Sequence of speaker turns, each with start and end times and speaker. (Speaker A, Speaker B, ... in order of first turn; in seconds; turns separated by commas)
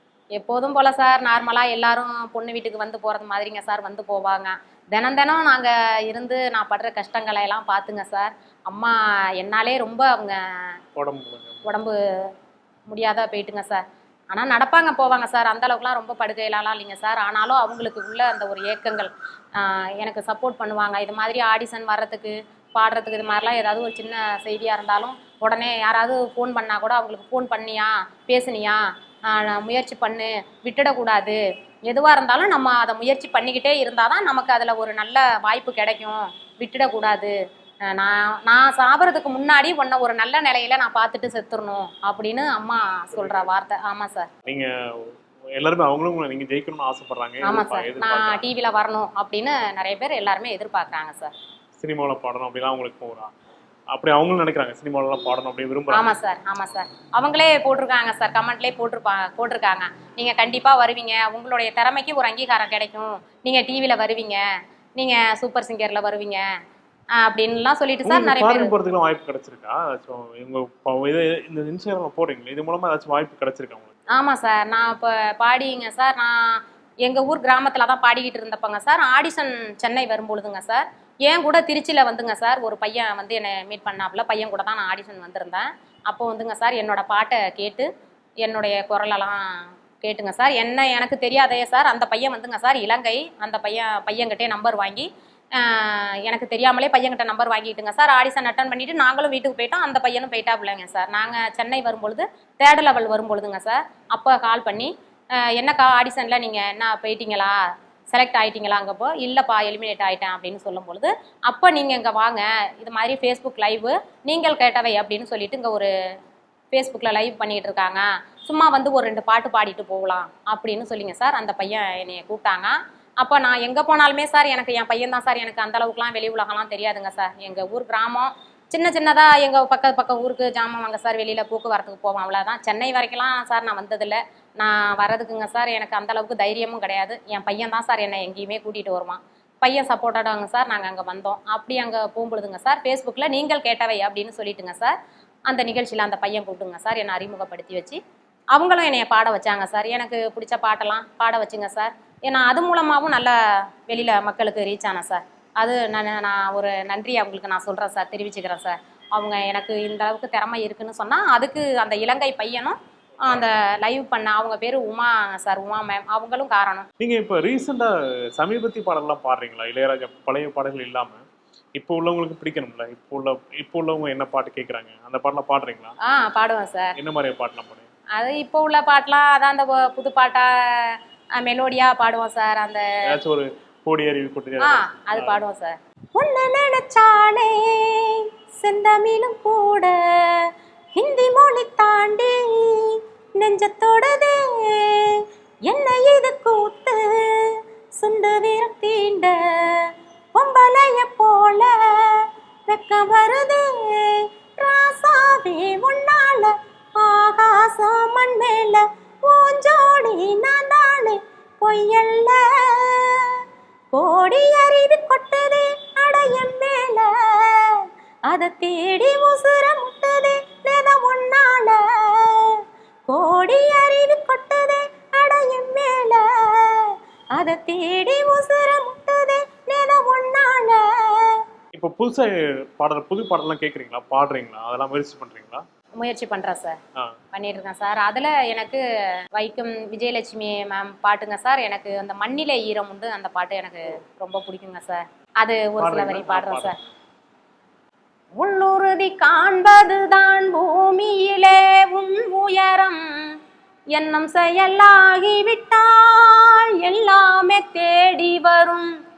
Speaker A: 0.4-10.7, Speaker B: 11.0-11.7, Speaker A: 11.7-11.9, Speaker A: 12.9-37.3, Speaker A: 37.9-44.3, Speaker B: 43.1-43.5, Speaker B: 44.5-48.4, Speaker A: 47.4-51.3, Speaker B: 51.8-53.3, Speaker B: 53.9-56.1, Speaker A: 55.9-64.4, Speaker A: 65.0-66.4, Speaker A: 67.2-68.7, Speaker B: 68.0-73.9, Speaker A: 74.1-87.9, Speaker A: 88.4-89.4, Speaker A: 90.0-104.9, Speaker A: 105.4-107.6, Speaker A: 108.1-115.9, Speaker A: 116.7-144.9, Speaker A: 145.5-148.0, Speaker A: 148.5-153.3, Speaker A: 153.9-166.9, Speaker B: 167.0-171.2, Speaker B: 171.8-175.9, Speaker A: 176.1-176.9, Speaker B: 177.0-177.9, Speaker A: 178.2-182.8, Speaker B: 183.1-185.4, Speaker A: 184.6-190.0, Speaker A: 190.9-197.5, Speaker A: 198.0-199.8, Speaker A: 200.3-213.3, Speaker A: 213.9-217.6, Speaker A: 218.3-222.6, Speaker A: 223.1-231.4, Speaker B: 231.8-235.6, Speaker A: 236.0-236.8, Speaker A: 237.3-238.8, Speaker A: 239.4-246.8, Speaker B: 245.8-246.9, Speaker A: 248.4-253.0, Speaker A: 253.9-258.9